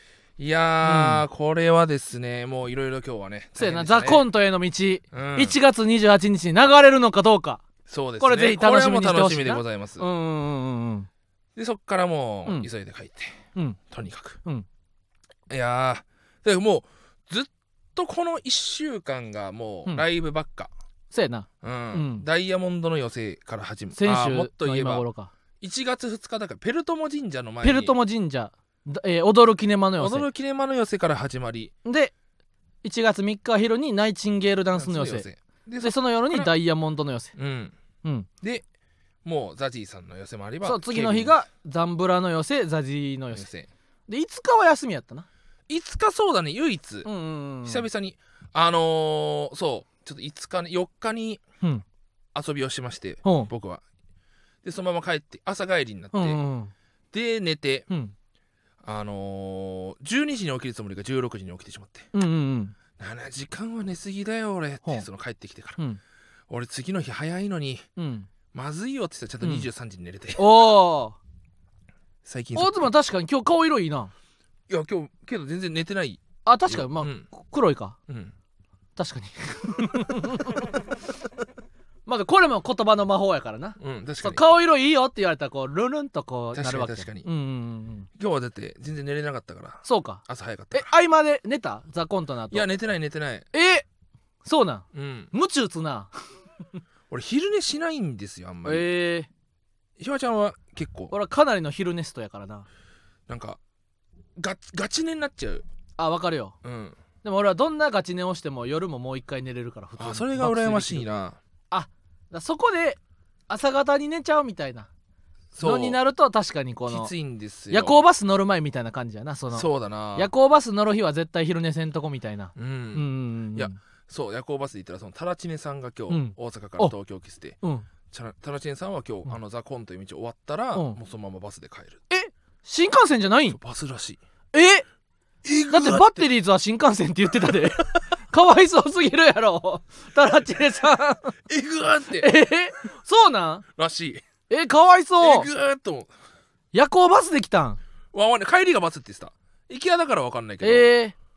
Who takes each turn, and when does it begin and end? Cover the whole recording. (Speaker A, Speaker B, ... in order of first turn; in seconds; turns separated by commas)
Speaker A: 0.4-4.2, Speaker B: 0.8-1.2, Speaker B: 3.6-7.6, Speaker A: 5.1-5.6, Speaker A: 7.9-10.1, Speaker B: 8.2-11.1, Speaker A: 11.6-13.4, Speaker A: 13.9-14.4, Speaker A: 15.5-20.7, Speaker B: 21.1-22.2, Speaker A: 21.6-25.0, Speaker B: 23.9-25.3, Speaker A: 25.6-27.9, Speaker B: 27.6-30.3, Speaker A: 30.0-31.7, Speaker B: 31.8-32.1, Speaker B: 32.8-35.3, Speaker A: 34.8-36.5, Speaker B: 35.8-37.3, Speaker A: 37.3-37.7, Speaker A: 39.2-41.3, Speaker B: 40.6-43.5, Speaker A: 43.3-43.7, Speaker B: 44.1-45.3, Speaker A: 45.7-47.1, Speaker B: 47.0-47.9, Speaker A: 47.6-51.4, Speaker A: 52.3-53.8, Speaker B: 53.2-53.5, Speaker A: 54.6-56.4, Speaker B: 56.1-56.7, Speaker A: 57.1-57.9, Speaker A: 58.8-62.1, Speaker B: 62.1-62.8, Speaker A: 63.0-65.8, Speaker A: 66.5-67.8, Speaker B: 68.0-68.3, Speaker A: 68.5-70.6, Speaker B: 69.4-69.7, Speaker B: 70.4-71.2, Speaker A: 72.2-72.9, Speaker B: 72.5-74.1, Speaker A: 74.7-77.3, Speaker B: 76.4-78.0, Speaker A: 78.1-78.3, Speaker B: 79.0-80.9, Speaker A: 79.8-80.2, Speaker B: 82.0-88.1, Speaker A: 83.8-84.4, Speaker A: 86.5-87.3, Speaker A: 88.2-90.9, Speaker B: 89.8-90.2, Speaker B: 90.7-92.7, Speaker A: 92.5-93.5, Speaker B: 93.5-93.8, Speaker B: 94.4-96.1, Speaker A: 94.9-95.3, Speaker A: 97.1-98.8, Speaker B: 98.6-99.3, Speaker A: 100.0-101.1, Speaker B: 101.1-102.7, Speaker A: 103.3-103.6, Speaker A: 104.4-105.6, Speaker B: 106.0-106.5, Speaker A: 106.6-107.0, Speaker B: 107.2-111.1, Speaker A: 110.0-111.4, Speaker B: 111.7-114.9, Speaker A: 115.5-116.0, Speaker B: 115.6-117.1, Speaker A: 116.9-118.0, Speaker B: 117.7-123.8, Speaker A: 119.5-120.3, Speaker A: 122.5-127.6, Speaker B: 126.1-126.9, Speaker B: 127.6-127.9, Speaker A: 128.1-132.0, Speaker B: 132.1-133.6, Speaker A: 133.5-134.2, Speaker B: 134.5-134.8, Speaker A: 135.4-136.2, Speaker B: 135.7-141.3, Speaker A: 137.4-137.8, Speaker A: 141.5-142.3, Speaker B: 142.2-143.6, Speaker A: 143.8-144.2, Speaker B: 144.5-145.5, Speaker A: 145.2-146.1, Speaker B: 146.7-147.8, Speaker A: 148.1-150.9, Speaker B: 150.6-151.2